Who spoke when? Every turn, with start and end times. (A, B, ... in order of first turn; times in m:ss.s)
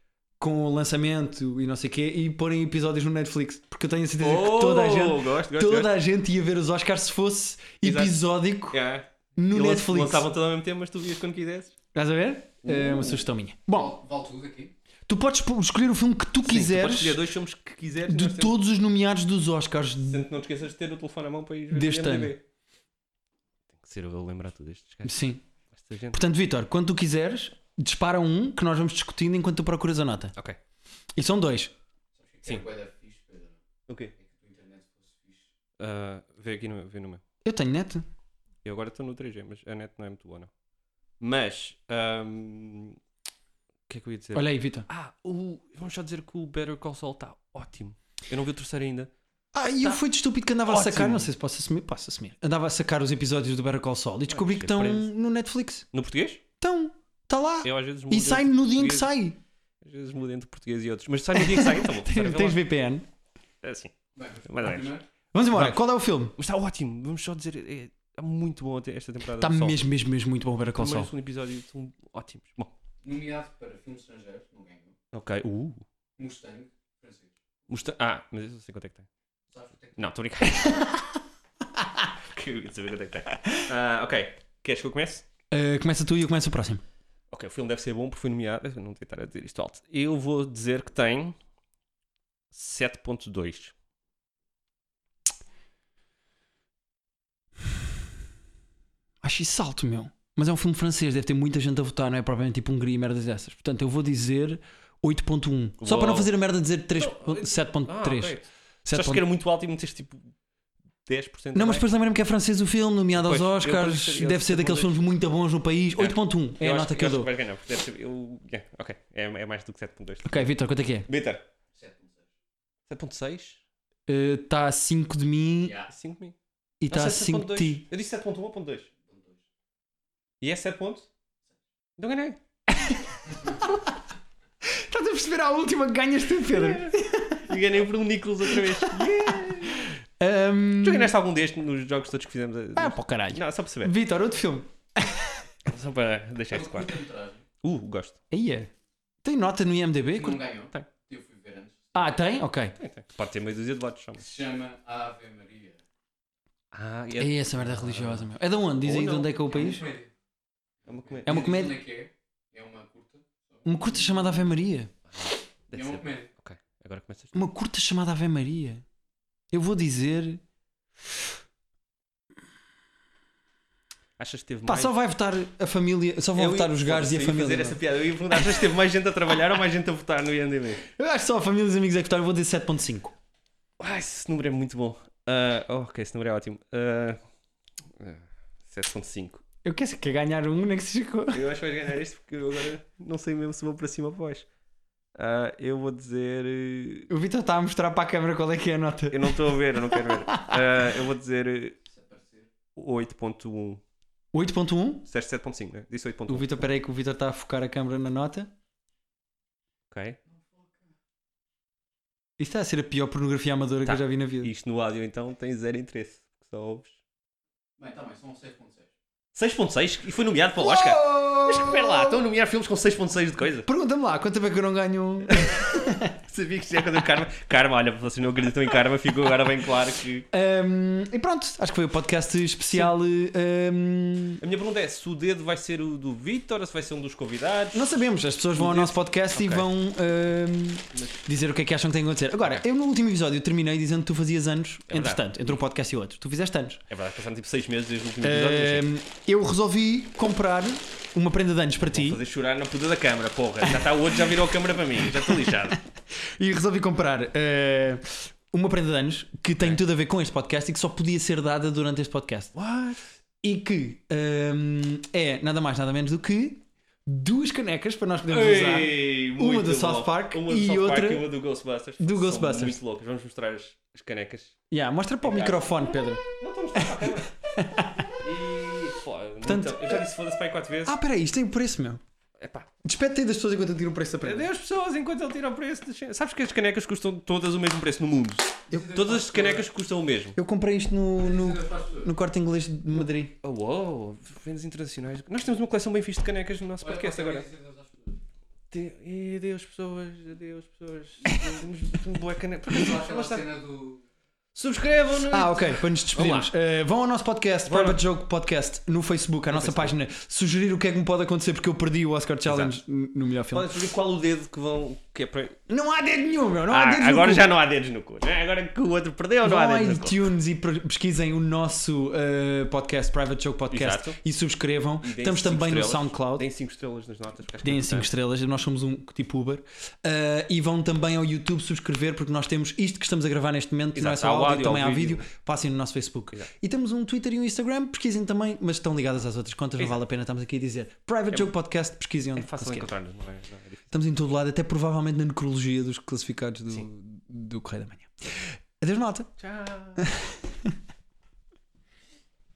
0:00.4-0:08.8 A
0:04.2-0:05.9 B
0:07.8-0:08.1 B
0:08.7-0:11.7 B
0:09.4-0:10.2 A
0:11.9-0:13.9 A
0:12.6-0:13.2 B
0:13.7-0:14.7 C
0:15.1-0:17.2 A
0:16.4-0:18.5 B
0:18.1-0:20.2 A
0:20.1-0:22.4 B
0:21.7-0:22.3 A
0:23.8-0:25.2 B
0:25.0-0:25.4 A
0:25.7-0:26.2 B
0:26.1-0:30.4 A
0:31.2-0:31.7 A
0:32.2-0:33.6 C
0:33.9-0:34.1 B
0:34.2-0:35.5 C
0:35.8-0:37.2 B
0:37.4-0:38.0 A
0:38.6-0:40.5 B
0:41.2-0:43.0 B
0:43.9-0:49.1 B
0:44.4-0:44.9 A
0:49.5-0:55.9 A
0:50.6-0:51.3 B
0:54.3-0:55.1 B
0:55.9-0:56.4 B
0:56.6-0:59.4 A
0:57.6-0:59.1 B
0:59.8-1:02.6 B
1:01.4-1:03.1 A
1:03.6-1:04.9 B
1:04.2-1:05.0 C
1:05.3-1:06.4 A
1:05.5-1:05.8 B
1:06.4-1:09.8 B
1:09.4-1:11.1 A
1:10.7-1:12.7 B
1:13.0-1:15.0 C
1:15.1-1:15.8 B
1:16.2-1:17.3 C
1:17.7-1:19.1 B
1:19.5-1:20.1 C
1:20.0-1:20.9 B
1:20.6-1:21.0 A
1:22.3-1:25.2 B
1:25.5-1:26.8 A
1:27.3-1:31.4 B
1:32.5-1:33.7 B
1:39.2-1:49.2 A
1:45.8-1:46.3 B
1:47.0-1:50.3 B
1:51.1-1:51.8 B
1:51.5-1:57.3 A
1:53.2-1:55.1 B
1:56.0-2:00.5 B
2:00.2-2:01.1 A
2:01.1-2:01.4 B
2:01.7-2:02.3 C
2:02.9-2:03.6 B
2:04.1-2:05.8 A
2:05.6-2:05.9 C
2:05.9-2:06.4 B
2:06.8-2:07.8 A
2:06.9-2:08.9 B
2:09.1-2:09.4 C
2:10.4-2:11.1 B
2:12.0-2:12.4 B
2:12.7-2:13.9 A
2:14.6-2:17.5 A
2:16.5-2:20.0 B
2:18.5-2:21.2 A
2:20.8-2:23.9 B
2:22.8-2:25.4 A
2:25.7-2:27.0 B
2:26.5-2:27.4 C
2:27.6-2:28.2 B
2:28.3-2:28.7 A
2:29.2-2:30.4 A
2:30.1-2:32.1 C
2:31.9-2:32.8 A
2:32.8-2:34.2 B
2:34.2-2:35.8 C
2:36.7-2:38.3 B
2:37.2-2:39.9 A
2:38.8-2:39.3 B
2:39.5-2:40.1 C
2:40.9-2:41.6 B
2:40.9-2:44.4 C
2:41.3-2:41.8 A
2:43.6-2:44.9 A
2:45.1-2:47.4 B
2:45.7-2:46.3 C
2:47.3-2:48.8 A
2:49.5-2:50.4 A
2:54.2-2:55.0 B
2:54.7-2:57.8 A
2:56.4-3:00.8 B
3:00.9-3:03.2 A
3:03.8-3:07.2 B
3:07.9-3:09.4 B
3:09.6-3:11.4 A
3:11.3-3:14.5 B
3:15.2-3:17.1 B
3:17.1-3:21.0 A
3:19.1-3:21.8 B
3:21.9-3:22.5 C
3:22.8-3:23.8 B
3:24.3-3:25.0 A
3:25.1-3:26.6 B
3:26.3-3:28.5 A
3:29.9-3:30.2 B
3:30.3-3:30.8 C
3:32.4-3:34.5 A
3:33.8-3:37.0 B
3:37.8-3:38.9 C
3:39.4-3:43.7 B
3:40.6-3:42.2 A
3:43.7-3:46.2 A
3:46.2-3:50.3 B
3:50.3-3:54.4 A
3:54.4-3:58.0 B
3:57.7-4:06.8 A
3:58.6-3:59.6 B
4:04.9-4:05.5 B
4:06.9-4:08.9 B
4:08.2-4:12.2 A
4:11.9-4:15.8 B
4:15.1-4:22.5 A
4:22.6-4:23.0 B
4:23.4-4:31.3 A
4:28.3-4:34.6 B
4:32.0-4:32.8 A
4:34.7-4:36.2 A
4:35.2-4:35.8 B
4:36.4-4:37.3 B
4:36.8-4:38.1 A
4:38.0-4:41.0 B
4:39.4-4:40.0 A
4:40.9-4:42.0 A
4:42.4-4:42.7 B
4:42.8-4:44.5 A
4:44.2-4:50.4 B
4:48.7-4:49.7 C
4:50.4-4:53.3 A
4:51.2-4:52.1 C
4:53.4-4:57.5 B
4:56.8-4:58.2 C
4:58.7-5:03.5 B
5:01.3-5:01.6 A
5:02.7-5:04.0 C
5:04.6-5:06.5 B
5:05.3-5:13.7 A
5:07.7-5:08.0 B
5:09.5-5:09.9 B
5:12.5-5:12.7 B
5:13.5-5:15.6 B
5:15.7-5:17.5 A
5:16.7-5:20.2 B
5:19.4-5:26.5 A
5:23.7-5:24.2 B
5:25.0-5:28.1 B
5:27.6-5:42.9 A
5:34.0-5:35.3 B
5:42.4-5:44.0 B
5:43.9-5:49.3 A
5:49.4-5:50.0 B
5:50.0-5:50.8 A